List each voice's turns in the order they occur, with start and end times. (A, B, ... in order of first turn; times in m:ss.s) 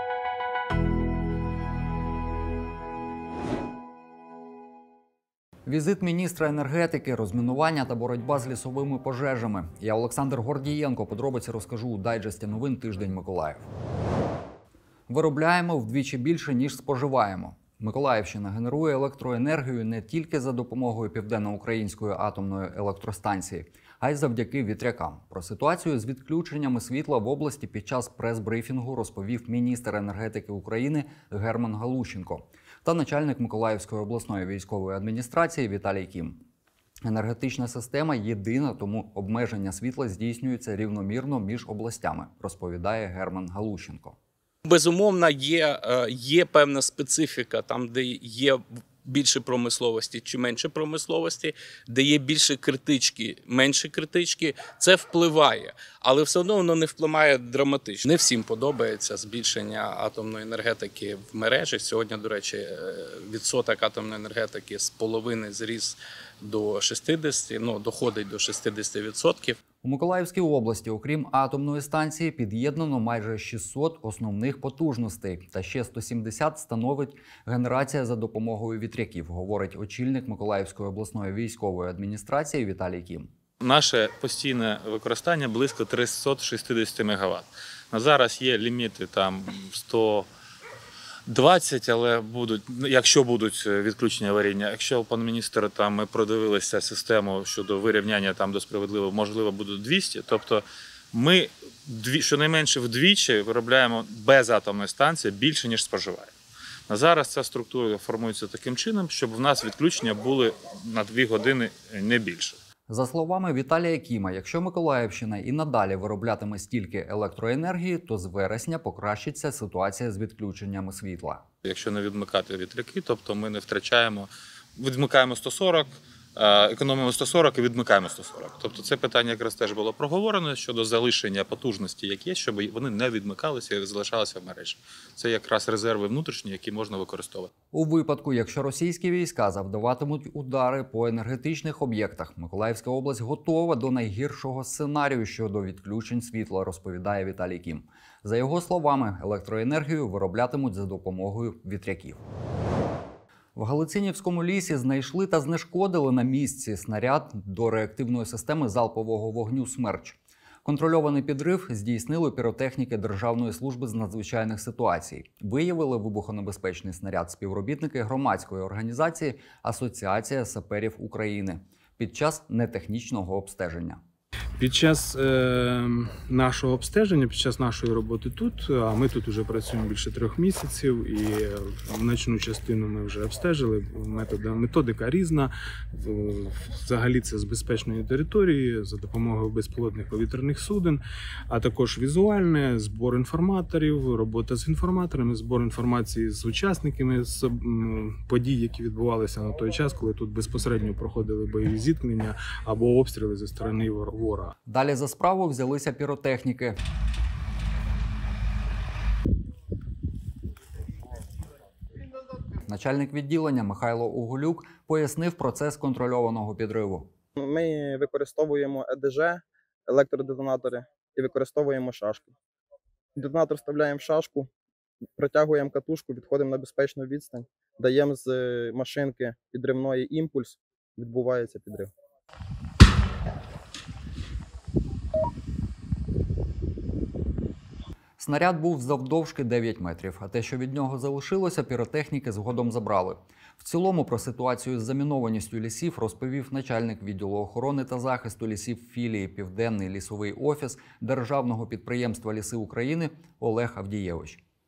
0:05.7-0:13.7 A
0:15.1-0:36.4 A
0:37.0-0:44.2 A
0:44.6-1:09.6 B
1:09.8-1:23.3 A
1:23.6-1:30.3 C
1:31.3-1:46.3 C
1:46.9-1:52.6 C
1:52.9-2:01.4 A
2:01.6-2:17.5 C
2:17.7-2:32.2 A
2:33.6-2:54.0 A
2:54.6-3:24.5 D
3:24.7-3:26.8 A
3:32.7-3:37.1 A
3:37.4-3:42.3 E
3:43.2-3:44.5 E
3:45.2-3:51.9 E
3:58.2-4:14.4 A